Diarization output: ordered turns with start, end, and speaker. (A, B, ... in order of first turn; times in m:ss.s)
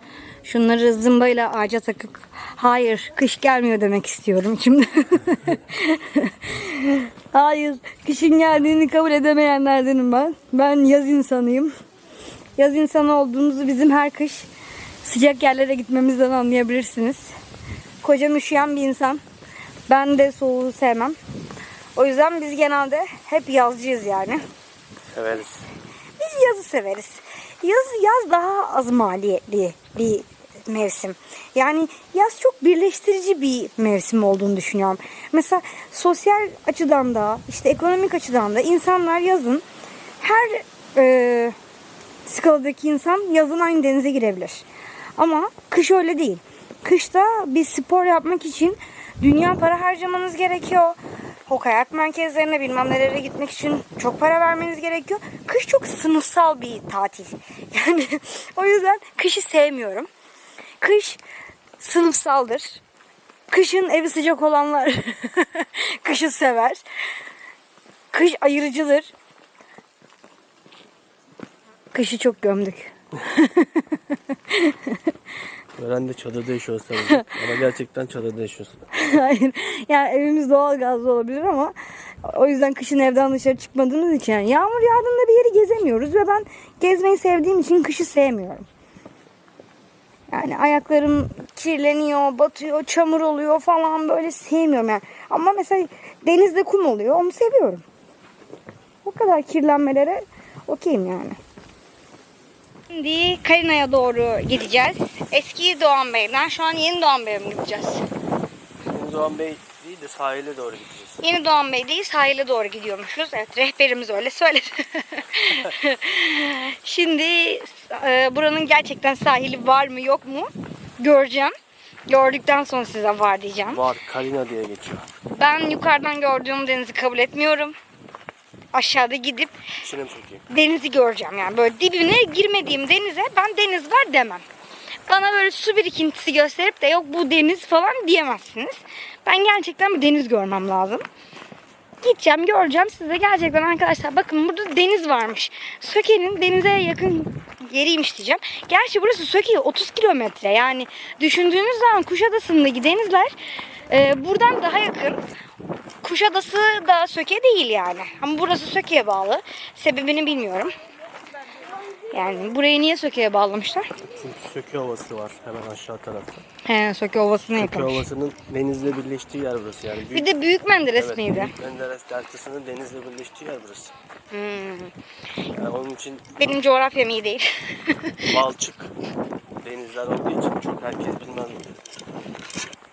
0:00.4-0:11.7 A
0:12.6-0:14.5 A
0:15.0-0:17.4 A
0:18.0-0:19.2 A
0:19.9-0:21.2 A
0:21.9-0:24.4 A
0:25.1-0:25.7 B
0:26.2-0:39.6 A
0:40.2-0:41.6 A
0:42.2-0:44.6 A
0:45.2-1:00.1 A
1:00.8-1:01.2 A
1:01.8-1:02.8 A
1:03.5-1:06.8 A
1:08.1-1:09.1 A
1:11.9-1:15.1 A
1:15.8-1:18.9 B
1:18.9-1:28.7 A
1:30.3-1:37.8 A
1:39.0-1:41.4 A
1:42.9-1:48.0 A
1:48.8-1:51.2 B
1:51.2-2:01.5 A
2:02.1-2:03.8 A
2:03.7-2:05.1 B
2:05.3-2:07.8 A
2:08.7-2:09.6 A
2:09.8-2:10.4 B
2:10.5-2:14.4 A
2:15.0-2:21.0 A
2:22.0-2:33.3 A
2:33.8-2:35.2 A
2:36.0-2:40.7 A
2:42.1-2:43.9 A
2:44.2-2:46.4 B
2:46.6-2:48.0 A
2:47.5-2:50.3 B
2:50.1-2:51.5 A
2:51.0-2:53.9 B
2:54.3-2:54.9 A
2:55.6-2:56.4 B
2:56.4-2:58.3 A
2:58.3-2:58.9 B
2:59.6-3:01.8 B